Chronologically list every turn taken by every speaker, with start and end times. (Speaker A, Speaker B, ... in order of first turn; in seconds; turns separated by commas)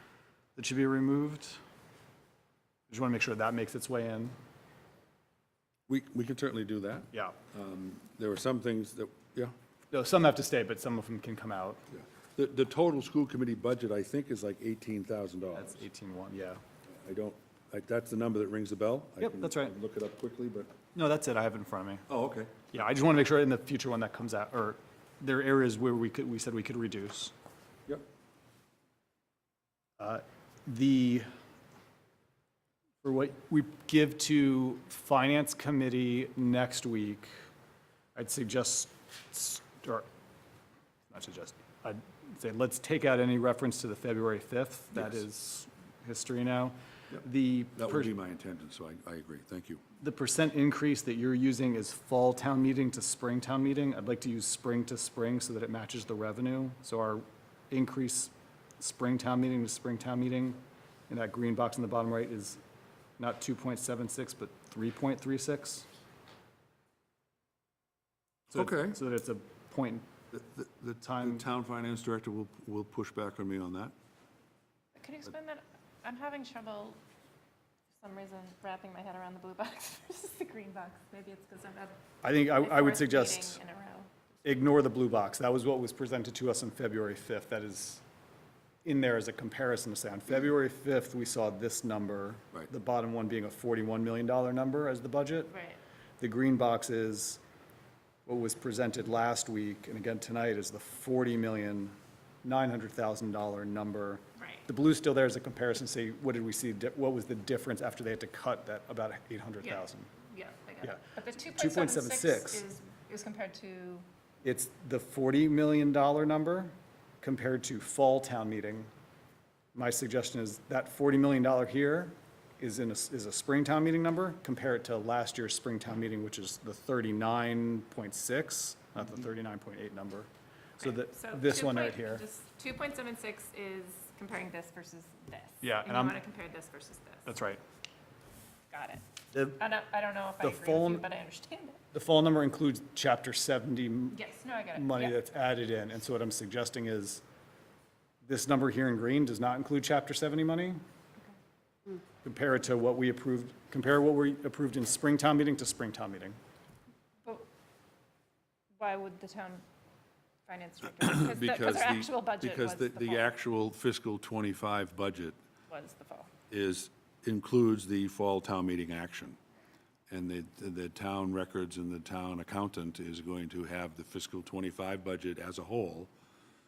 Speaker A: 0.6-1.6, Speaker A: 2.9-4.3, Speaker B: 5.9-9.5, Speaker A: 7.1-7.4, Speaker A: 9.9-11.8, Speaker B: 12.3-15.8, Speaker A: 15.5-16.6, Speaker B: 16.9-20.7, Speaker A: 19.2-19.7, Speaker A: 20.9-22.1, Speaker B: 22.1-22.6, Speaker A: 22.7-27.3, Speaker A: 30.0-31.3, Speaker A: 33.0-37.3, Speaker A: 38.1-40.1, Speaker A: 41.1-48.1, Speaker B: 47.8-49.8, Speaker A: 50.0-62.6, Speaker A: 63.2-65.9, Speaker A: 68.5-70.1, Speaker B: 68.5-69.0, Speaker B: 70.3-73.9, Speaker A: 71.0-71.4, Speaker C: 74.9-77.0, Speaker C: 78.0-84.1, Speaker A: 82.2-83.6, Speaker A: 84.4-88.0, Speaker A: 88.8-95.5, Speaker C: 95.5-95.8, Speaker A: 96.2-97.4, Speaker A: 98.2-110.1, Speaker C: 104.4-104.7, Speaker C: 109.6-114.0, Speaker A: 110.8-112.6, Speaker A: 114.4-118.9, Speaker A: 119.7-132.2, Speaker C: 130.8-137.3, Speaker A: 135.6-136.2, Speaker A: 137.2-137.6, Speaker C: 138.7-141.8, Speaker A: 139.3-139.6, Speaker A: 140.4-141.1, Speaker A: 141.9-144.2, Speaker C: 144.1-145.2, Speaker A: 144.7-147.2, Speaker A: 148.2-150.8, Speaker A: 152.2-156.4, Speaker C: 158.8-159.6, Speaker C: 160.4-163.2, Speaker B: 161.0-165.3, Speaker C: 165.7-166.3, Speaker B: 166.5-169.4, Speaker B: 170.1-176.1